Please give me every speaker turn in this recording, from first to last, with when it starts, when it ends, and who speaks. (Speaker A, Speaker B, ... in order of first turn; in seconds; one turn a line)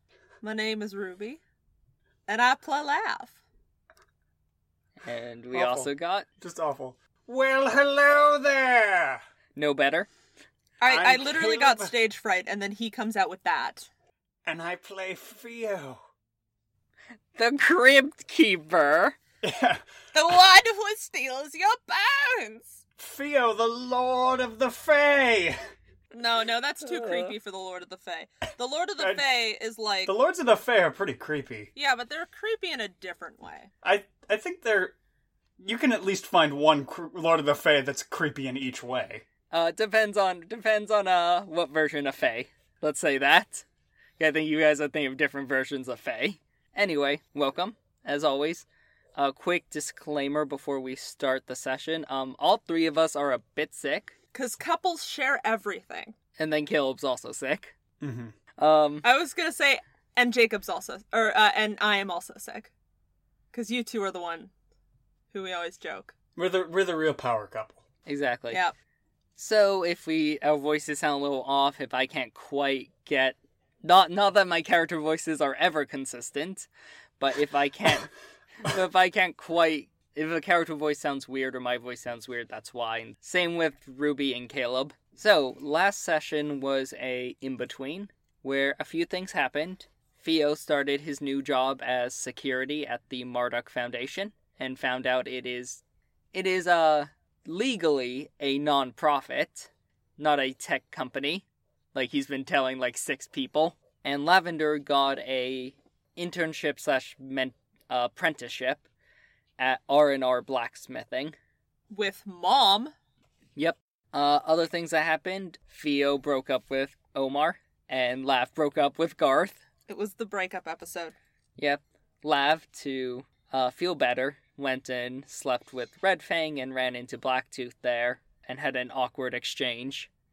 Speaker A: 0.4-1.4
Speaker A: 2.3-3.4
Speaker B: 5.0-6.2
Speaker C: 5.5-9.2
Speaker B: 9.6-10.1
Speaker A: 10.8-13.9
Speaker C: 10.8-11.9
Speaker C: 14.4-16.0
Speaker B: 17.4-19.2
Speaker C: 19.4-19.8
Speaker A: 20.1-22.8
Speaker C: 23.0-25.6
Speaker A: 26.1-30.1
Speaker C: 29.0-29.2
Speaker C: 30.1-31.7
Speaker A: 31.8-33.7
Speaker C: 33.8-35.0
Speaker C: 35.6-39.2
Speaker B: 39.5-43.6
Speaker B: 44.2-54.1
Speaker A: 54.3-56.1
Speaker B: 56.4-57.7
Speaker C: 58.0-58.3
Speaker B: 58.6-59.0
Speaker A: 59.0-62.7
Speaker A: 63.5-64.5
Speaker A: 65.3-66.1
Speaker C: 66.3-67.8
Speaker B: 68.0-68.6
Speaker B: 69.4-76.7
Speaker B: 77.2-78.1
Speaker B: 78.6-108.9
Speaker B: 109.6-111.3
Speaker A: 111.9-112.9
Speaker B: 113.5-119.6
Speaker A: 119.9-121.2
Speaker B: 121.6-130.1